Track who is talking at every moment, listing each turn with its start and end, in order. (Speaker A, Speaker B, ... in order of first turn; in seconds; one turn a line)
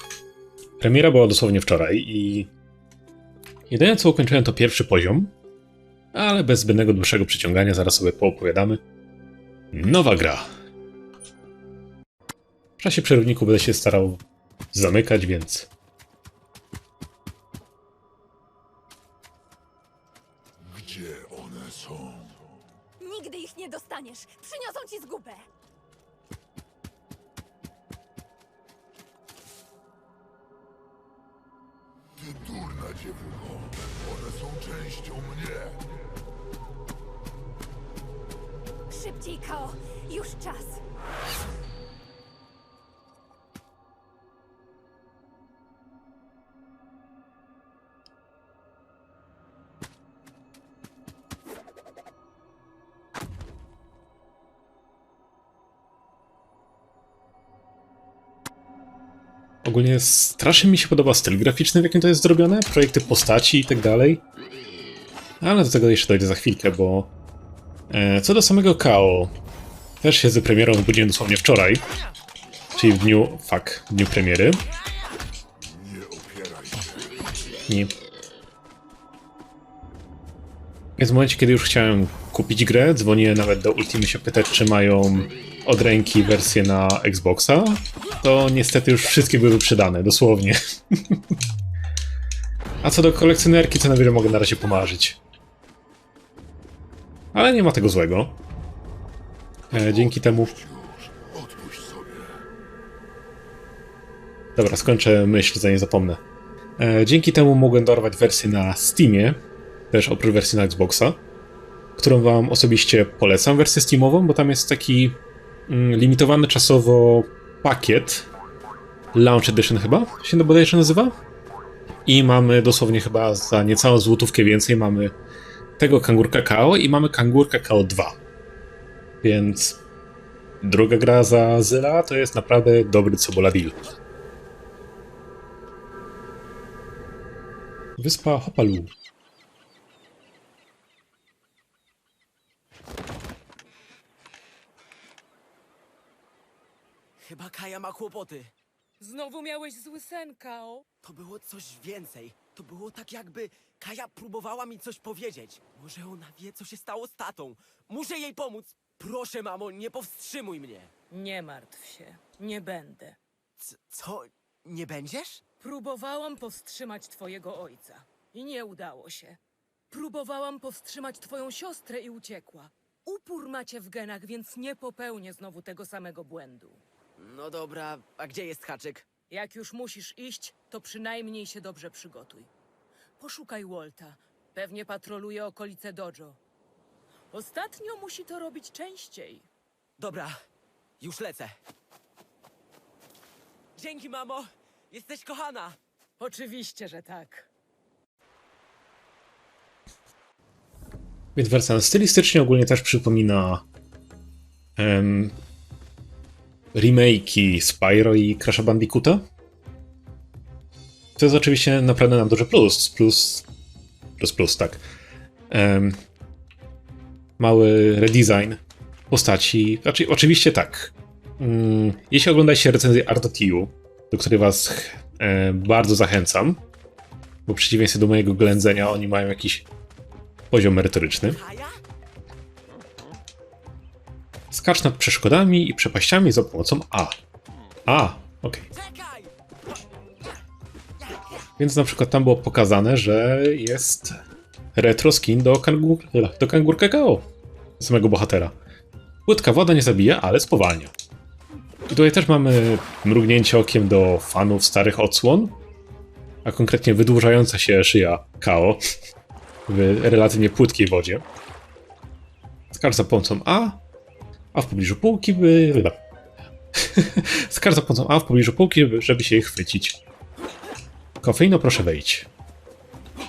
Speaker A: 0.8-2.5
Speaker A: 3.7-5.3
Speaker A: 6.1-8.8
Speaker A: 9.7-10.5
Speaker A: 12.8-15.7
Speaker B: 20.6-22.4
Speaker C: 23.0-25.4
Speaker B: 32.2-35.8
Speaker C: 38.9-40.8
Speaker A: 59.6-64.2
Speaker A: 65.4-67.1
Speaker A: 67.9-69.3
Speaker A: 70.0-71.8
Speaker A: 72.8-74.6
Speaker B: 75.6-77.4
Speaker A: 81.0-91.2
Speaker A: 92.8-95.2
Speaker A: 97.3-98.4
Speaker A: 99.7-100.5
Speaker B: 99.7-102.5
Speaker A: 104.5-106.2
Speaker A: 106.8-109.4
Speaker A: 109.9-111.2
Speaker A: 112.0-118.3
Speaker A: 119.1-121.1
Speaker A: 122.0-125.1
Speaker A: 125.8-128.2
Speaker A: 129.2-129.8
Speaker A: 130.6-133.8
Speaker A: 138.0-138.9
Speaker D: 147.2-148.5
Speaker E: 149.0-150.8
Speaker D: 151.0-160.9
Speaker E: 161.1-163.2
Speaker D: 163.6-165.4
Speaker E: 165.6-169.4
Speaker E: 169.9-176.8
Speaker D: 177.2-179.1
Speaker E: 179.3-182.5
Speaker E: 183.2-186.4
Speaker E: 187.3-189.5
Speaker D: 190.0-190.3
Speaker D: 191.0-191.5
Speaker D: 193.8-195.8
Speaker E: 196.2-197.5
Speaker A: 201.3-203.6
Speaker A: 204.8-205.3
Speaker A: 206.7-209.2
Speaker A: 211.2-213.4
Speaker A: 214.2-214.8
Speaker A: 215.5-216.0
Speaker A: 217.4-226.6
Speaker A: 227.5-229.7
Speaker A: 230.5-231.4
Speaker D: 231.3-231.8
Speaker A: 234.5-237.2
Speaker A: 237.9-238.7
Speaker D: 238.7-239.3
Speaker A: 241.6-244.2
Speaker A: 244.7-247.2
Speaker A: 247.8-248.5
Speaker A: 249.2-250.9
Speaker A: 251.9-255.6
Speaker A: 256.4-258.8
Speaker A: 259.7-261.2
Speaker A: 262.7-263.8
Speaker A: 264.5-266.0
Speaker A: 266.7-270.0
Speaker A: 271.2-272.3